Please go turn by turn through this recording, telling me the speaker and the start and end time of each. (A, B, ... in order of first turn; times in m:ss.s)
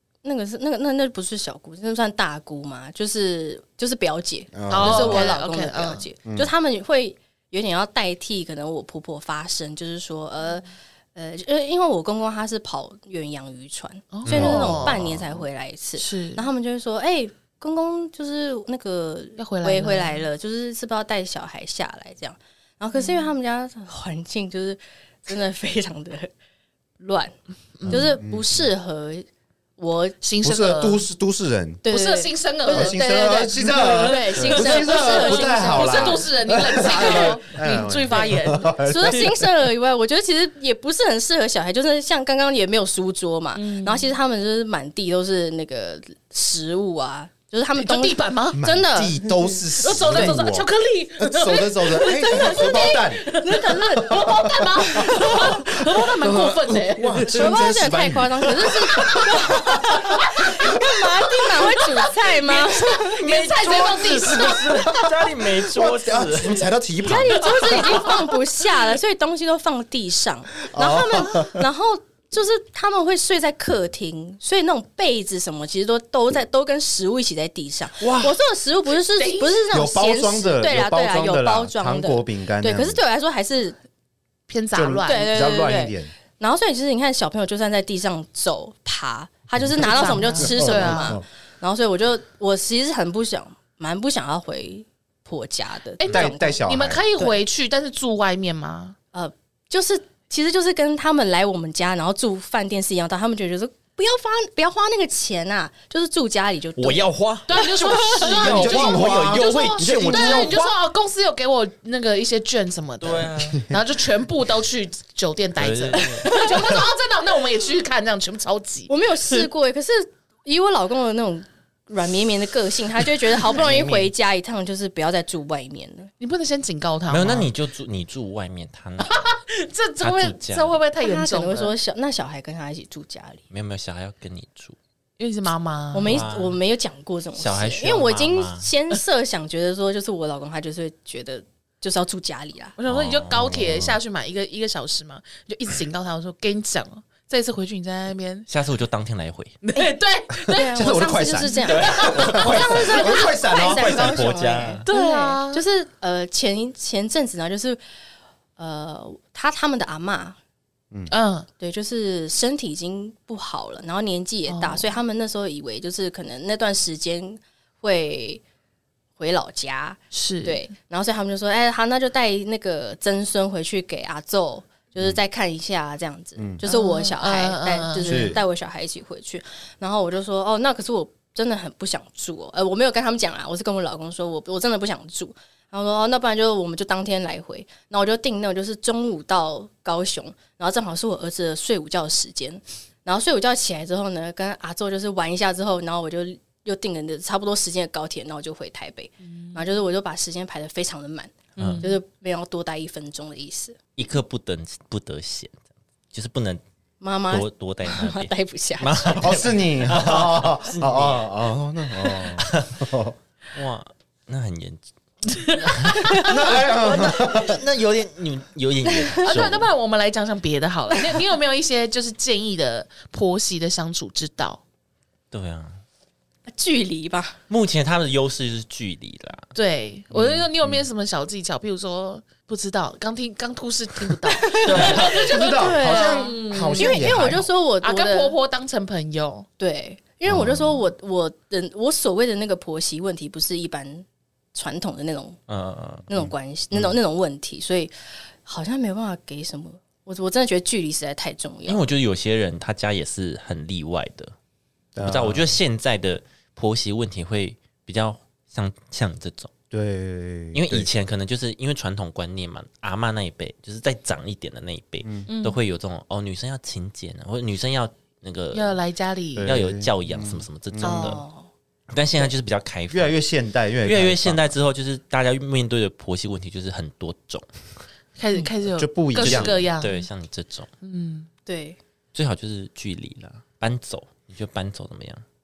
0:00.2-0:26.3 A
0:04.5-0:05.3 B
0:04.7-0:06.1 C
0:06.3-0:06.5 B
0:14.1-0:15.0 C
0:14.3-0:15.0 D
0:14.3-0:15.4 B
0:16.0-0:16.5 C
0:19.4-0:20.3 C
0:22.9-0:23.3 C
0:27.0-0:29.3 A
0:27.8-0:28.1 C
0:27.8-0:28.7 B
0:29.8-0:30.2 A
0:30.2-0:31.0 C
0:30.4-0:31.8 B
0:31.8-0:37.4 A
0:31.9-0:39.3 C
0:32.7-0:39.5 B
0:38.8-0:49.2 A
0:43.6-0:44.1 C
0:47.8-0:48.6 C
0:48.5-1:00.8 B
0:49.2-0:57.9 C
0:49.9-0:50.4 A
0:52.3-0:55.5 A
0:57.2-1:03.2 A
0:58.6-0:59.3 C
0:59.9-1:04.9 C
1:03.0-1:06.7 D
1:03.6-1:08.0 B
1:07.0-1:23.8 A
1:07.5-1:08.3 C
1:10.7-1:11.7 B
1:18.0-1:18.3 B
1:19.1-1:19.6 C
1:19.7-1:23.0 B
1:24.5-1:25.5 C
1:24.7-1:26.1 B
1:25.1-1:36.6 A
1:29.6-1:31.2 B
1:29.8-1:31.2 C
1:36.0-1:39.0 C
1:36.1-1:37.1 B
1:39.1-1:48.8 A
1:46.8-1:50.6 D
1:47.5-1:58.9 C
1:48.2-1:50.7 B
1:53.0-1:53.7 D
1:55.6-1:56.4 D
1:56.3-1:56.6 A
1:58.9-2:06.1 A
2:03.5-2:04.1 D
2:06.2-2:07.5 C
2:07.1-2:09.2 D
2:09.0-2:11.8 C
2:10.0-2:10.8 D
2:11.0-2:13.4 A
2:13.5-2:14.8 D
2:15.2-2:16.3 C
2:15.9-2:22.8 A
2:16.0-2:16.6 D
2:17.4-2:18.7 D
2:22.8-2:28.5 C
2:22.9-2:23.7 D
2:23.5-2:24.0 B
2:28.5-2:29.6 D
2:29.6-2:33.4 C
2:30.5-2:37.8 A
2:30.6-2:34.3 B
2:31.6-2:34.8 D
2:34.9-2:35.6 C
2:38.6-2:40.4 A
2:41.1-2:41.5 C
2:41.6-2:48.4 A
2:44.5-2:44.9 C
2:49.2-3:23.8 A
2:50.1-2:50.6 C
2:56.4-2:56.6 B
2:56.6-2:58.4 C
2:58.0-2:58.4 B
3:19.3-3:19.7 C
3:21.6-3:21.8 D
3:21.6-3:22.0 C
3:24.0-3:25.6 D
3:26.1-3:26.6 D
3:27.0-3:29.2 A
3:27.3-3:31.4 D
3:29.1-3:33.2 B
3:32.1-3:32.8 D
3:33.5-3:34.8 D
3:35.4-3:36.3 C
3:35.6-3:39.7 D
3:36.2-3:37.6 B
3:39.1-3:39.5 A
3:39.2-3:44.6 C
3:45.3-3:45.8 D
3:46.5-3:47.4 A
3:47.5-3:49.5 D
3:49.6-3:59.5 C
3:50.1-3:50.5 D
3:54.4-3:58.4 A
3:54.6-3:55.2 D
3:54.8-3:57.5 B
3:59.6-4:05.4 A
4:00.3-4:00.7 B
4:05.5-4:06.1 D
4:06.1-4:11.8 A
4:11.7-4:14.3 D
4:15.0-4:15.6 B
4:15.0-4:19.5 D
4:19.7-4:20.9 B
4:20.5-4:28.8 D
4:25.3-4:25.6 C
4:28.5-4:29.5 C
4:29.4-4:31.2 B
4:29.4-4:31.2 D
4:30.8-4:31.5 A
4:31.9-4:33.2 D
4:32.9-4:34.5 B
4:33.8-4:37.5 D
4:38.2-4:40.1 C
4:38.8-4:39.6 B
4:39.2-4:40.7 D
4:40.8-4:41.3 C
4:41.5-4:41.8 A
4:42.1-4:45.2 D